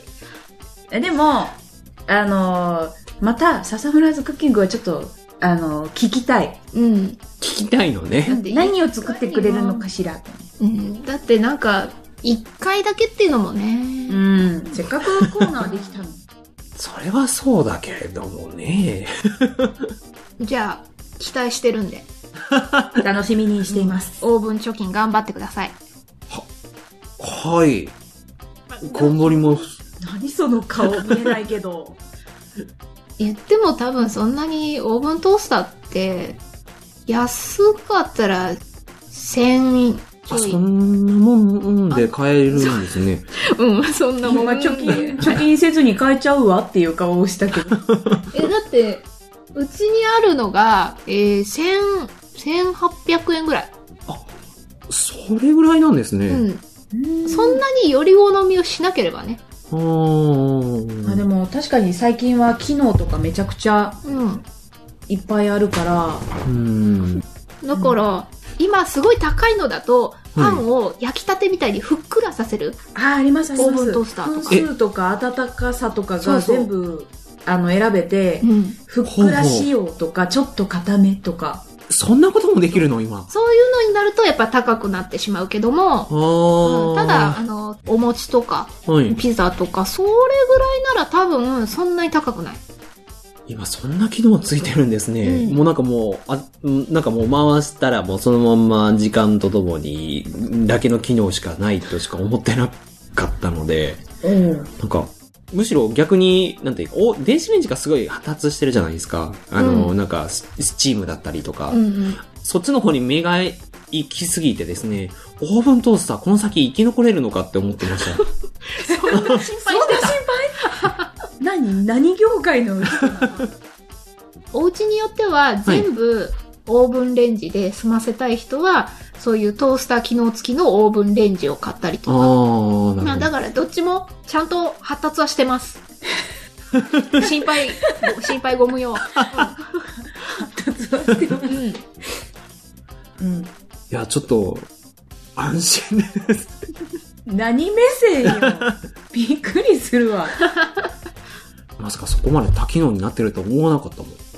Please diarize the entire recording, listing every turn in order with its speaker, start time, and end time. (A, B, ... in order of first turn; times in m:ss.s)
0:00.9-0:06.6 A
0:06.7-0:07.2 B
0:07.4-0:08.4 C
0:08.3-0:09.9 B
0:08.3-0:10.4 A
0:10.6-0:14.2 B
0:14.1-0:16.2 A
0:16.8-0:19.9 C
0:20.4-0:22.1 B
0:22.5-0:23.0 C
0:23.0-0:24.2 A
0:23.7-0:25.8 B
0:27.2-0:28.0 C
0:28.7-0:29.6 B
0:28.8-0:29.7 C
0:30.0-0:32.0 A
0:33.2-0:36.4 B
0:37.1-0:38.6 B
0:39.1-0:40.6 B
0:40.3-0:43.3 C
0:41.9-0:45.4 B
0:44.2-0:47.8 A
0:47.7-0:48.3 C
0:48.3-0:53.7 B
0:54.9-0:56.4 C
0:56.3-0:56.6 B
0:56.9-0:57.6 A
0:57.3-0:59.4 B
0:59.7-1:01.3 C
1:01.0-1:04.0 A
1:04.0-1:04.4 B
1:05.1-1:06.3 A
1:06.4-1:07.2 C
1:07.6-1:12.8 B
1:07.7-1:08.0 A
1:10.4-1:10.6 C
1:13.0-1:21.6 A
1:13.6-1:14.6 B
1:16.2-1:16.7 B
1:18.4-1:18.8 B
1:19.0-1:19.7 C
1:21.9-1:23.3 C
1:23.3-1:32.6 B
1:26.1-1:27.4 C
1:28.9-1:29.2 C
1:33.5-1:44.0 C
1:35.2-1:35.6 B
1:44.2-1:44.7 A
1:44.8-1:58.2 C
1:49.6-1:49.9 B
1:51.7-1:52.2 B
1:58.2-2:01.1 B
1:58.8-2:00.9 A
1:59.1-1:59.4 C
2:01.4-2:03.5 A
2:04.5-2:12.3 B
2:12.1-2:13.3 C
2:13.0-2:15.8 B
2:17.1-2:19.8 B
2:17.8-2:18.1 A
2:20.2-2:21.7 A
2:21.5-2:21.8 B
2:23.2-2:23.5 A
2:23.9-2:24.7 C
2:25.4-2:26.6 C
2:27.3-2:30.4 A
2:28.3-2:28.7 C
2:31.8-2:34.2 C